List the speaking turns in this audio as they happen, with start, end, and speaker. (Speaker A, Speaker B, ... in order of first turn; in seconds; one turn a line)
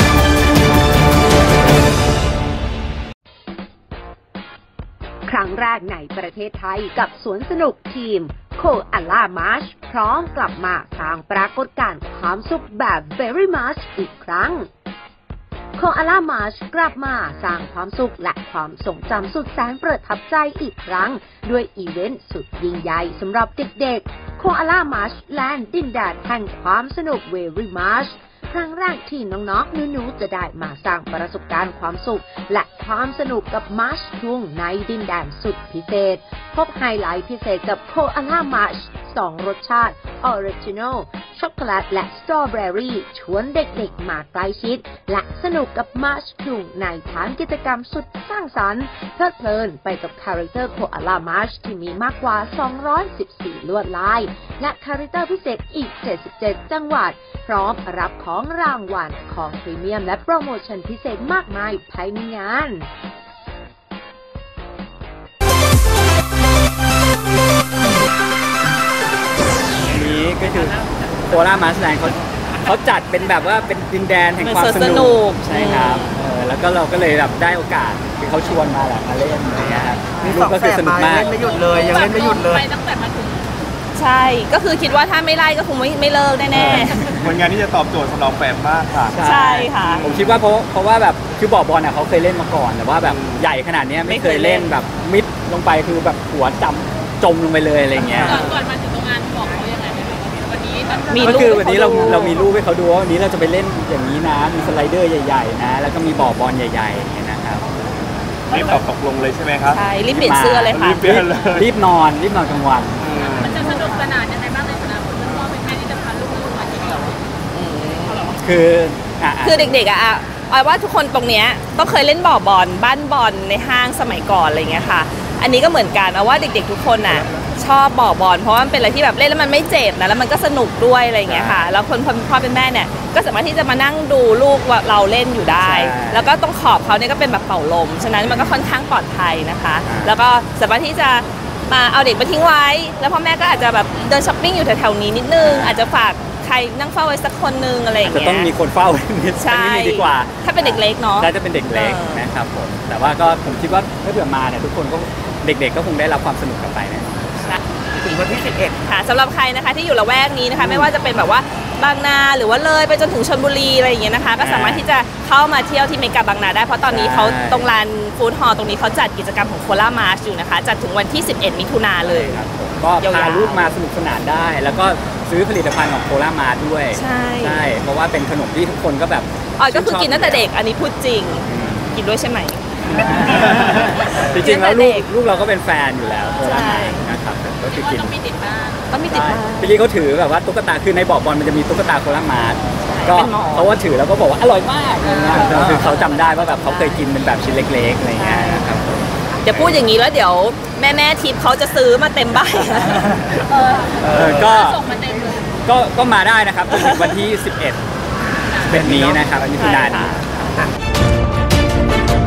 Speaker A: 5.3-14.7
Speaker A: 15.8-62.9
Speaker B: 69.9-81.3
Speaker C: 74.4-76.1
Speaker D: 79.6-82.7
Speaker E: 81.3-83.5
Speaker C: 83.9-86.9
Speaker B: 86.5-87.2
Speaker F: 86.5-90.4
Speaker E: 86.7-87.2
Speaker B: 89.1-98.5
Speaker C: 89.2-90.0
Speaker F: 93.2-93.4
Speaker C: 94.0-94.8
Speaker E: 98.2-101.2
Speaker C: 101.1-102.4
Speaker B: 101.2-107.8
Speaker F: 108.5-109.8
Speaker C: 109.7-111.0
Speaker B: 110.1-113.0
Speaker F: 110.7-111.7
Speaker F: 113.0-113.5
Speaker E: 113.4-117.2
Speaker C: 117.5-118.3
Speaker B: 118.4-119.8
Speaker C: 119.4-148.5
Speaker B: 131.2-131.7
Speaker B: 135.6-136.3
Speaker B: 138.2-138.6
Speaker B: 139.8-140.1
Speaker B: 145.4-145.9
Speaker B: 148.0-157.3
Speaker C: 149.3-152.2
Speaker D: 157.9-158.8
Speaker C: 158.8-172.4
Speaker B: 160.5-160.9
Speaker B: 164.4-164.9
Speaker B: 166.9-167.7
Speaker B: 172.0-180.5
Speaker C: 172.9-173.8
Speaker C: 176.9-177.7
Speaker C: 179.6-182.7
Speaker B: 181.4-182.0
Speaker B: 182.8-188.1
Speaker C: 184.0-185.1
Speaker C: 186.4-187.0
Speaker E: 187.7-188.8
Speaker C: 188.9-189.8
Speaker B: 189.1-199.8
Speaker C: 192.8-193.7
Speaker E: 195.0-195.9
Speaker C: 195.4-195.8
Speaker C: 196.4-197.1
Speaker C: 198.1-198.7
Speaker C: 199.4-203.1
Speaker E: 203.4-205.6
Speaker D: 204.0-204.4
Speaker B: 204.1-204.8
Speaker B: 205.6-207.8
Speaker C: 206.7-207.2
Speaker B: 208.7-210.5
Speaker D: 208.7-209.2
Speaker C: 209.5-210.2